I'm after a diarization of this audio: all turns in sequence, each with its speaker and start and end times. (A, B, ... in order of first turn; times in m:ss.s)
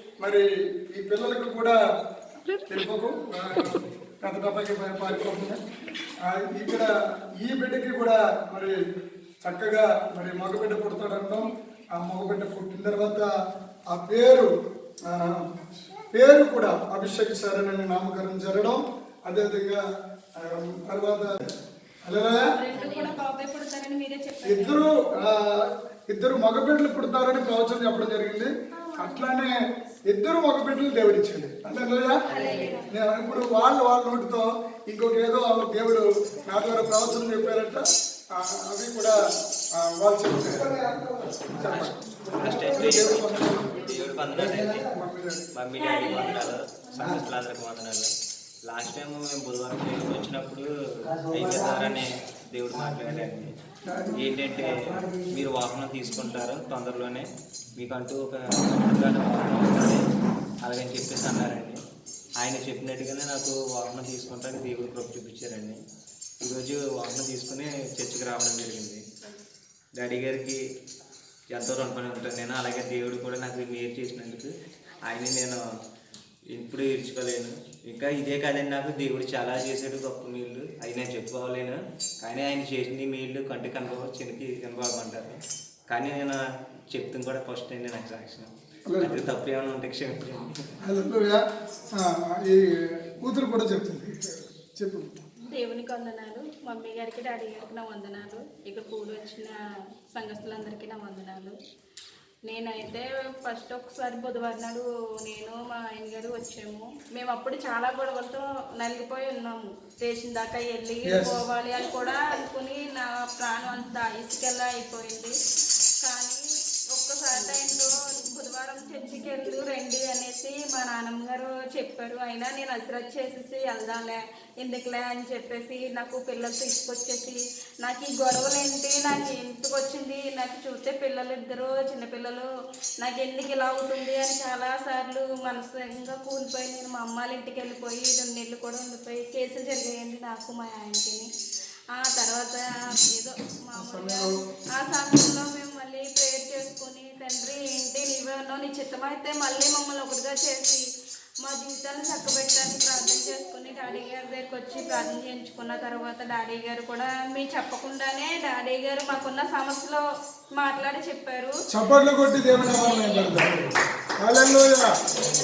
0:00.2-0:01.8 A
0:02.7-0:05.6 A
0:06.2-0:08.8 A
0:09.4-0:13.3 A
0:13.9-0:14.5 A
0:15.1-0:19.8 A
0:20.4-0:21.5 A
0:22.0-0:22.5 A
0:22.5-0:24.9 B
0:24.5-0:29.5 A
0:30.0-0:32.2 A
0:32.3-0:32.9 B
0:32.9-0:39.2 A
0:39.7-0:43.9 A
0:41.6-0:45.0 C
0:44.8-0:45.5 A
0:45.5-0:48.1 C
0:48.6-0:53.5 C
0:53.9-0:54.2 A
0:54.1-1:00.0 C
1:00.6-1:01.8 C
1:02.4-1:05.8 C
1:06.4-1:09.0 C
1:10.0-1:10.6 C
1:11.5-1:14.5 C
1:15.0-1:15.6 C
1:16.5-1:26.4 C
1:26.9-1:30.7 C
1:28.9-1:29.2 A
1:30.8-1:35.2 A
1:35.4-1:41.6 B
1:42.5-1:55.4 B
1:51.1-1:51.4 A
1:56.0-2:12.5 B
2:13.0-2:21.3 B
2:21.9-2:30.8 B
2:23.8-2:24.3 A
2:31.4-2:40.0 B
2:40.5-2:41.6 B
2:41.7-2:43.6 A
2:44.2-2:44.9 A